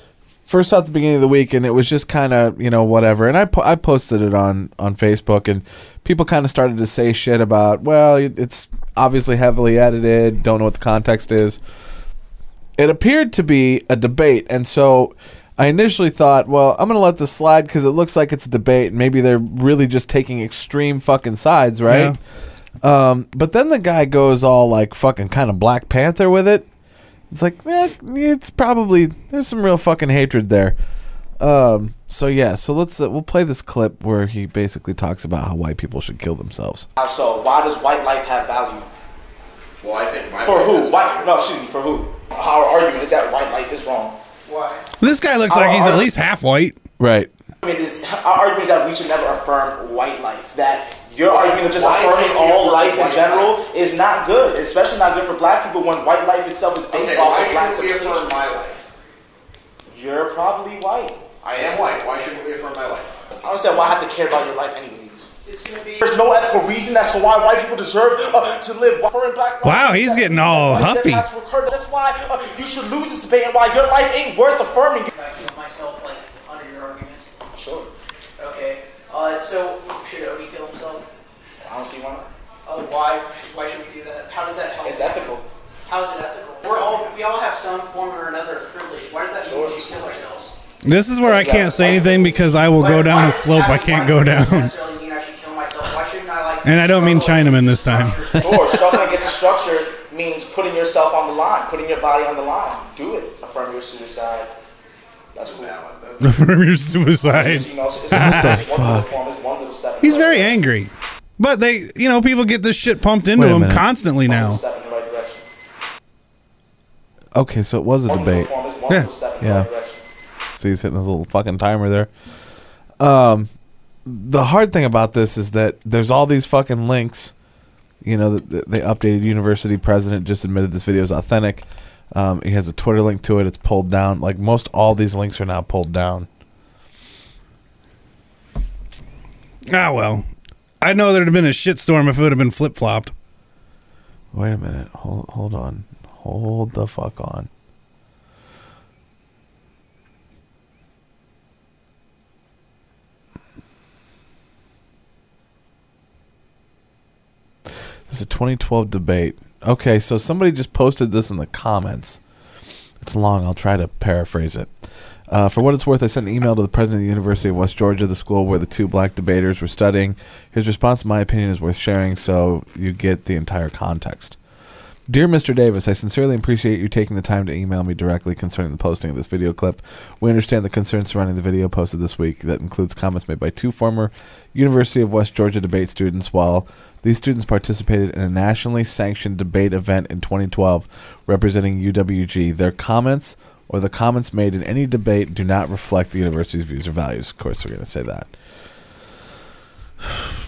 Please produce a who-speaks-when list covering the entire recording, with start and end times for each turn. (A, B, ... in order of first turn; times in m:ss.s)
0:00.5-0:11.6 A
0:12.8-0:22.2 A
0:21.9-0:22.2 B
0:22.8-0:26.6 A
0:27.3-0:30.8 A
0:31.4-0:36.9 A
0:37.0-0:38.9 C
0:39.8-0:41.4 D
0:40.4-0:44.2 C
0:44.4-0:44.8 E
0:45.0-0:46.8 B
0:45.5-0:46.1 C
0:47.0-0:47.3 A
0:47.6-0:58.3 C
0:51.2-0:53.6 D
0:56.9-0:58.8 D
0:59.9-1:01.2 C
1:01.4-1:03.3 D
1:03.4-1:05.2 C
1:05.4-1:06.1 E
1:06.0-1:15.1 C
1:09.6-1:11.3 B
1:15.1-1:17.3 E
1:17.5-1:17.9 C
1:18.4-1:21.0 E
1:21.6-1:22.3 C
1:22.6-1:25.3 E
1:24.8-1:25.4 C
1:25.8-1:30.6 E
1:26.6-1:27.1 C
1:29.4-1:30.3 C
1:30.8-1:34.7 B
1:31.2-1:32.4 C
1:32.7-1:39.4 E
1:36.6-1:38.8 B
1:38.4-1:44.5 C
1:45.3-1:45.8 C
1:45.4-1:46.2 D
1:46.2-1:48.6 B
1:47.2-1:50.6 C
1:48.1-1:49.1 A
1:50.0-1:54.6 B
1:53.3-1:53.8 A
1:54.2-1:55.4 C
1:57.3-1:58.5 A
1:58.1-2:00.0 C
1:59.4-1:59.7 A
2:00.6-2:02.1 A
2:03.0-2:03.5 A
2:04.0-2:07.3 A
2:08.0-2:16.3 A
2:19.7-2:20.3 B
2:20.8-2:23.1 B
2:24.3-2:27.5 A
2:38.1-2:42.2 A
2:43.0-2:44.7 A
2:45.3-2:54.4 A
2:55.1-3:18.3 A